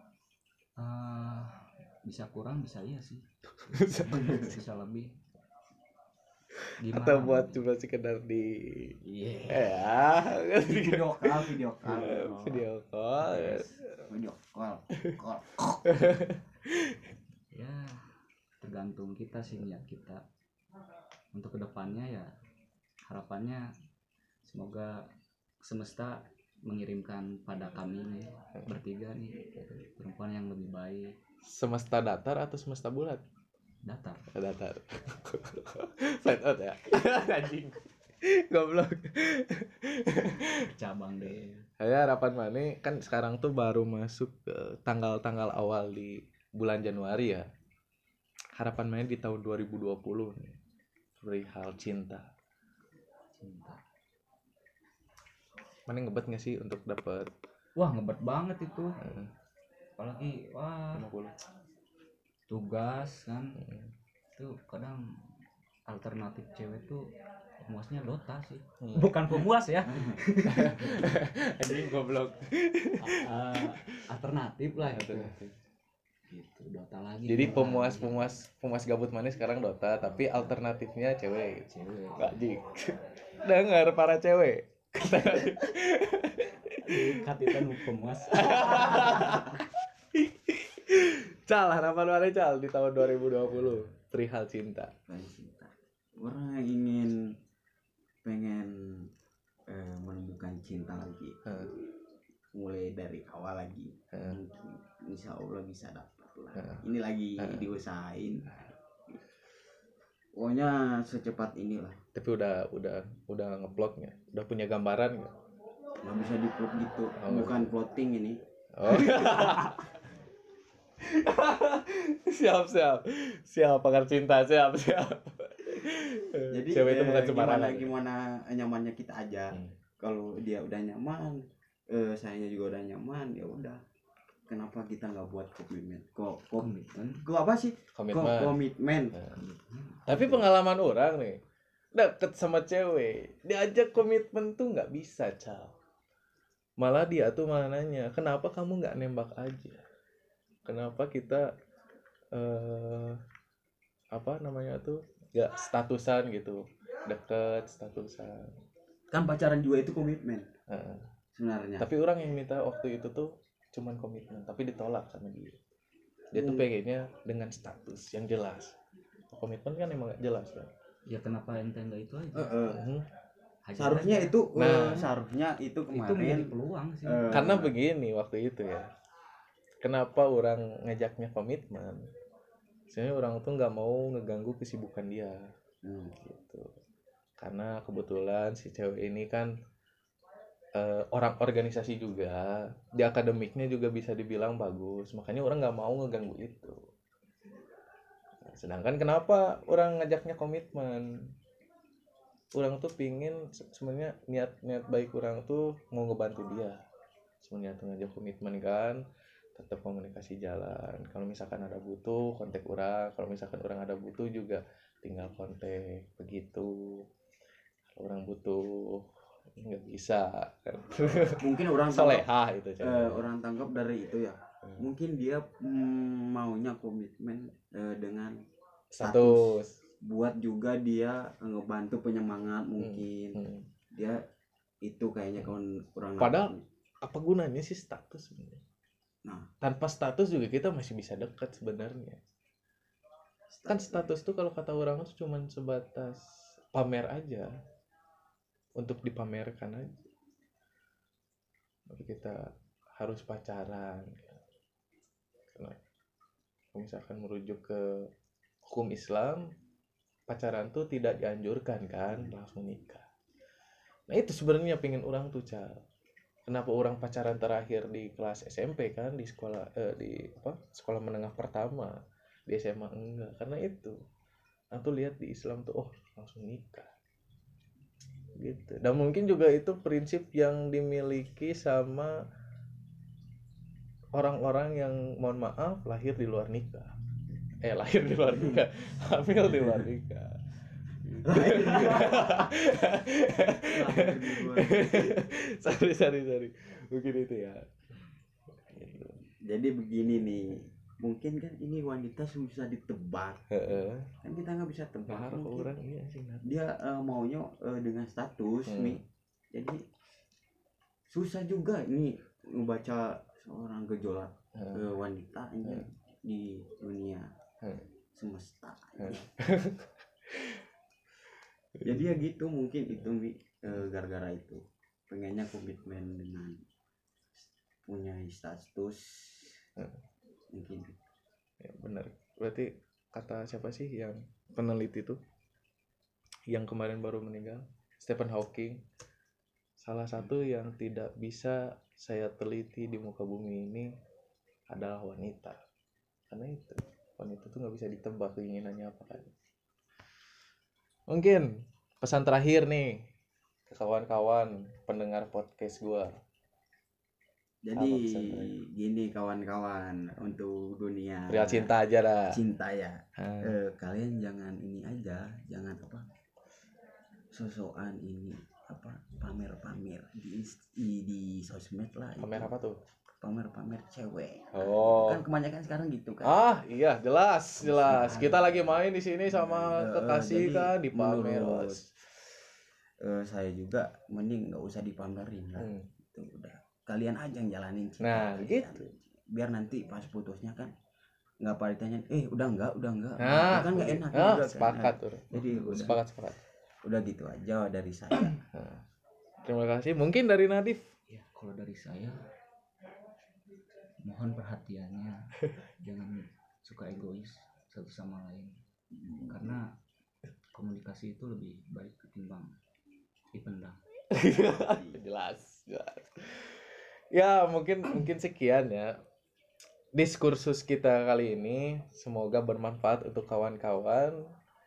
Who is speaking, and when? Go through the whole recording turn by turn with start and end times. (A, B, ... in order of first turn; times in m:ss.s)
0:00.8-0:05.2 A
0:03.6-0:04.6 B
0:06.6-0:09.0 B
0:06.8-0:07.7 A
0:09.0-0:09.9 A
0:09.5-0:14.1 B
0:10.6-0:12.6 C
0:13.2-0:13.8 A
0:14.1-0:15.8 C
0:15.9-0:17.1 B
0:17.5-0:20.2 A
0:21.3-0:22.3 A
0:23.1-0:23.7 A
0:24.4-0:25.1 A
0:25.6-0:31.2 A
0:31.4-0:33.2 B
0:33.8-0:34.3 A
0:34.3-0:40.7 B
0:40.6-0:41.7 A
0:41.8-0:47.5 B
0:48.6-0:50.6 B
0:51.2-0:52.3 B
0:53.4-0:53.8 A
0:55.9-0:57.3 B
0:57.8-0:59.0 A
0:59.0-0:59.3 B
1:00.0-1:01.1 A
1:00.9-1:01.4 B
1:02.5-1:03.7 A
1:03.6-1:03.9 B
1:04.4-1:05.2 A
1:05.9-1:11.1 A
1:08.8-1:09.3 B
1:09.8-1:10.7 C
1:10.5-1:14.0 B
1:13.0-1:15.4 A
1:14.8-1:15.6 B
1:16.3-1:18.4 A
1:17.2-1:34.9 B
1:21.7-1:22.4 A
1:26.8-1:29.5 A
1:35.1-1:37.3 C
1:38.2-1:39.1 C
1:39.7-1:41.8 C
1:41.5-1:41.7 B
1:42.5-1:48.7 C
1:44.1-1:44.4 B
1:46.6-1:46.8 B
1:47.4-1:47.7 B
1:50.4-1:52.0 C
1:52.1-1:55.4 B
1:56.0-1:59.7 C
1:57.2-1:57.7 B
1:58.7-1:59.9 B
2:01.0-2:07.9 B
2:06.5-2:13.8 C
2:14.5-2:19.2 C
2:16.6-2:17.2 A
2:17.9-2:18.6 B
2:19.2-2:20.4 A
2:20.1-2:21.4 B
2:21.9-2:25.7 B
2:26.8-2:29.8 B
2:30.6-2:31.5 B
2:32.3-2:33.2 B
2:34.1-2:38.5 B
2:39.1-2:40.5 C
2:40.7-2:41.1 B
2:41.4-2:41.9 C
2:41.8-2:45.6 B
2:46.3-2:48.7 B
2:46.4-2:46.7 C
2:49.3-2:50.7 B
2:51.1-2:52.7 A
2:52.3-2:52.8 C
2:52.7-2:53.1 B
2:53.6-2:54.4 A
2:53.8-2:56.5 C
2:54.5-2:55.1 B
2:55.9-2:57.5 A
2:57.0-2:57.8 C
2:57.3-2:58.9 B
2:59.8-3:02.1 B
3:02.9-3:05.5 B
3:05.8-3:06.2 C
3:06.2-3:06.7 B
3:07.4-3:09.5 B
3:10.7-3:16.8 B
3:18.4-3:21.3 B
3:22.5-3:26.8 B
3:27.4-3:29.0 B
3:29.5-3:37.1 B
3:37.9-3:43.3 B
3:41.4-3:42.3 C
3:42.8-3:48.4 C
3:48.9-3:49.8 B
3:49.0-3:54.2 C
3:52.8-3:53.7 B
3:54.8-3:56.6 C
3:56.2-3:58.6 B
3:59.2-3:59.5 C
3:59.6-4:02.2 B
4:03.5-4:04.1 C
4:03.7-4:07.5 B
4:08.8-4:10.0 B
4:11.9-4:14.4 B
4:15.5-4:15.8 B
4:16.7-4:18.1 B
4:18.6-4:19.5 B
4:20.3-4:23.0 B
4:24.1-4:25.8 B
4:26.4-4:34.0 B
4:34.7-4:36.9 B
4:38.4-4:42.2 B
4:44.1-4:47.0 B
4:47.5-4:50.4 B
4:51.0-4:57.7 B
4:51.2-4:52.4 C
4:53.6-4:55.2 C
4:58.7-4:59.2 B
4:59.4-5:03.6 C
5:03.5-5:04.1 B
5:04.2-5:05.7 C
5:05.1-5:06.5 B
5:06.4-5:09.8 C
5:08.7-5:09.0 B
5:11.1-5:17.3 C
5:14.5-5:14.9 B
5:18.1-5:19.3 C
5:19.0-5:20.6 B
5:21.8-5:26.6 C
5:27.8-5:29.6 C
5:30.5-5:31.0 C
5:31.6-5:35.2 B
5:36.5-5:38.8 B
5:39.8-5:43.9 B
5:44.7-5:45.6 B
5:46.3-5:49.3 B
5:51.1-5:53.1 B
5:53.7-5:56.1 B
5:57.6-6:01.7 C
5:57.8-5:58.5 B
6:01.3-6:02.4 B
6:02.3-6:06.1 C
6:03.2-6:03.6 B
6:07.3-6:12.5 C
6:12.2-6:12.8 B
6:13.2-6:16.4 C
6:14.5-6:15.2 B
6:16.2-6:21.8 B
6:17.8-6:18.5 C
6:19.4-6:21.8 C
6:23.0-6:30.7 C
6:25.6-6:25.9 B
6:28.0-6:28.8 B
6:31.4-6:35.9 C
6:33.2-6:36.4 B
6:35.3-6:36.0 A
6:36.8-6:38.4 C
6:38.5-6:38.8 B
6:39.4-6:40.9 B
6:41.1-6:42.2 A
6:44.0-6:48.6 A
6:49.0-6:49.6 C
6:49.2-6:49.7 A
6:50.5-6:52.5 A
6:53.3-6:53.8 A
6:54.1-6:58.9 B
6:54.5-6:55.0 C
6:59.9-7:04.2 B